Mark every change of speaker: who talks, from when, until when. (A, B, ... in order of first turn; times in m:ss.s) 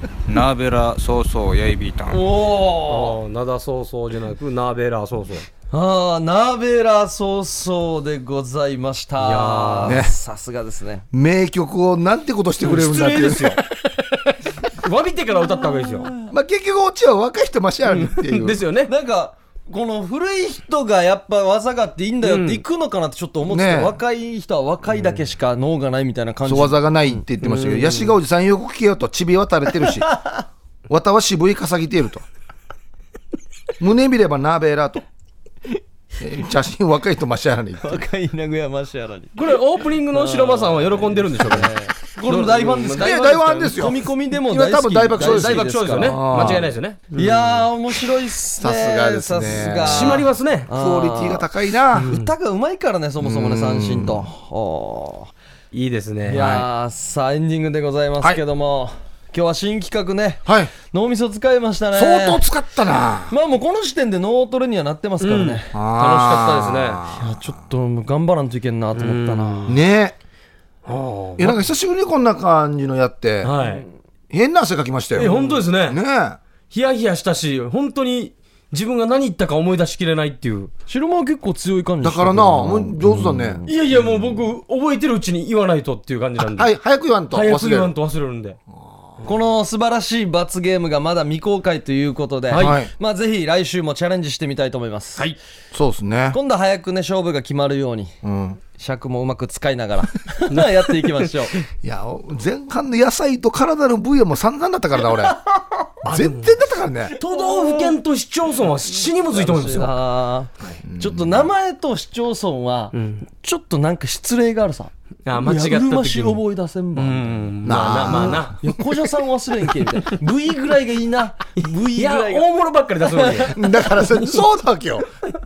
0:00.3-0:02.2 A
0:02.1-0:03.2 B
0:02.9-0:05.5 C
0:05.7-0:11.1 B
0:09.2-0:10.0 C
0:09.8-0:10.1 D
0:11.1-0:13.6 D
0:12.6-0:16.1 C
0:15.7-0:16.2 B
0:16.3-0:18.6 D
0:17.9-0:18.9 C
0:18.9-0:27.2 B
0:22.2-0:22.6 C
0:23.5-0:24.0 D
0:26.4-0:30.1 D
0:27.4-0:28.1 C
0:30.0-0:30.4 B
0:30.9-0:32.3 D
0:33.8-0:35.0 D
0:36.2-0:38.1 D
0:37.8-0:39.4 B
0:39.4-0:43.8 C
0:40.1-0:43.2 B
0:43.0-0:46.7 D
0:43.8-0:46.6 B
0:45.2-0:47.6 C
0:47.1-0:55.3 B
0:48.6-0:52.1 D
0:49.8-0:50.7 C
0:52.0-0:52.3 C
0:53.2-0:54.3 D
0:55.7-0:56.5 C
0:56.3-1:02.4 B
0:56.3-0:56.7 D
1:00.5-1:00.7 D
1:01.9-1:03.3 D
1:03.3-1:05.6 B
1:05.2-1:07.0 C
1:05.7-1:07.5 D
1:07.1-1:09.8 B
1:08.9-1:09.8 C
1:09.7-1:10.2 D
1:10.9-1:11.6 C
1:11.4-1:13.5 D
1:13.4-1:13.9 C
1:13.6-1:13.9 B
1:14.3-1:16.4 D
1:15.2-1:16.0 C
1:15.2-1:15.6 B
1:16.7-1:20.7 C
1:20.9-1:23.8 B
1:22.0-1:24.2 D
1:23.7-1:26.7 C
1:26.4-1:27.9 D
1:27.3-1:28.6 C
1:28.7-1:29.2 D
1:29.2-1:35.3 B
1:32.5-1:32.8 C
1:32.5-1:32.9 D
1:35.7-1:36.4 D
1:36.3-1:38.2 B
1:38.2-1:38.6 D
1:38.7-1:41.5 B
1:41.8-1:45.4 D
1:46.0-1:47.2 D
1:47.2-1:48.0 B
1:47.2-1:49.9 C
1:48.9-1:57.5 B
1:50.6-1:51.5 D
1:52.9-1:53.3 C
1:55.3-1:56.4 C
1:56.9-1:58.6 C
1:57.6-1:58.5 D
1:58.1-2:02.5 B
2:01.6-2:03.6 C
2:03.0-2:03.6 B
2:03.4-2:05.1 D